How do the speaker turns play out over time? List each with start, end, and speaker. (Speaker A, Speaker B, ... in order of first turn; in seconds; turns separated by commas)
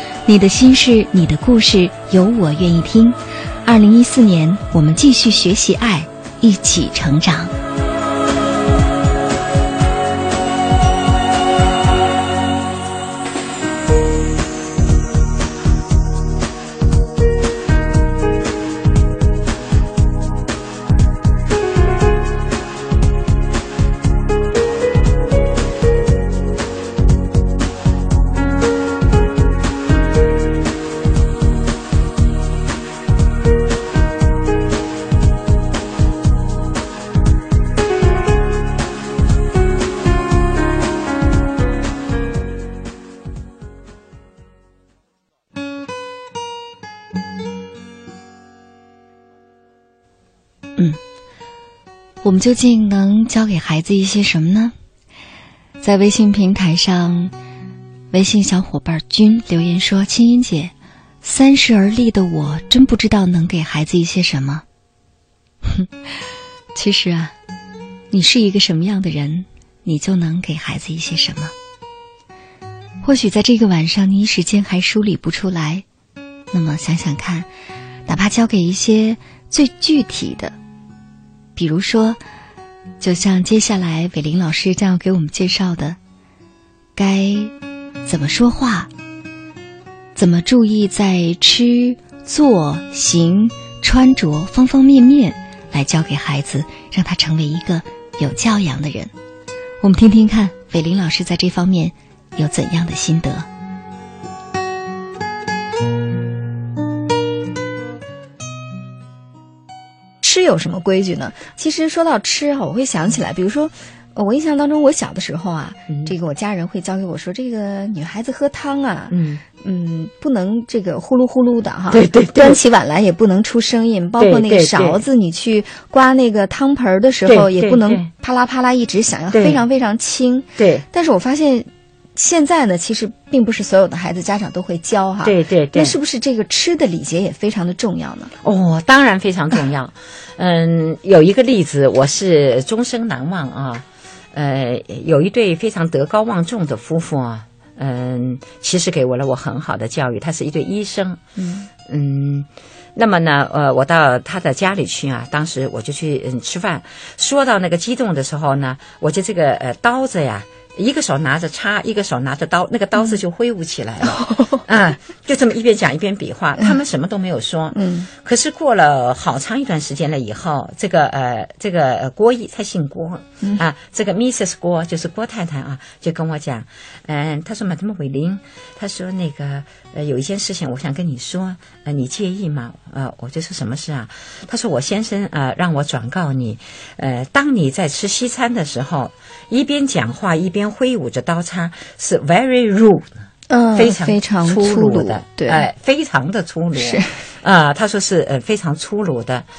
Speaker A: 0.2-7.5, Speaker A: 52.2-54.7, Speaker A: 55.8-57.3, Speaker A: 58.1-64.6, Speaker A: 66.7-67.3, Speaker A: 68.1-71.5, Speaker A: 73.0-75.8, Speaker A: 76.5-77.5, Speaker A: 78.0-80.5, Speaker A: 81.5-82.2, Speaker A: 83.0-86.0, Speaker A: 87.0-87.5, Speaker A: 88.0-88.9, Speaker A: 90.2-99.1, Speaker A: 99.8-103.5, Speaker B: 110.2-138.3, Speaker C: 119.1-119.4, Speaker C: 121.9-122.6, Speaker C: 124.2-125.0, Speaker C: 127.2-128.1, Speaker C: 129.3-129.6, Speaker C: 130.6-130.8, Speaker C: 135.2-135.9, Speaker C: 138.4-151.2, Speaker B: 151.4-151.7, Speaker C: 151.8-193.1, Speaker B: 164.2-164.6, Speaker B: 167.7-168.1, Speaker B: 193.5-195.6, Speaker C: 193.7-199.4, Speaker B: 196.8-197.2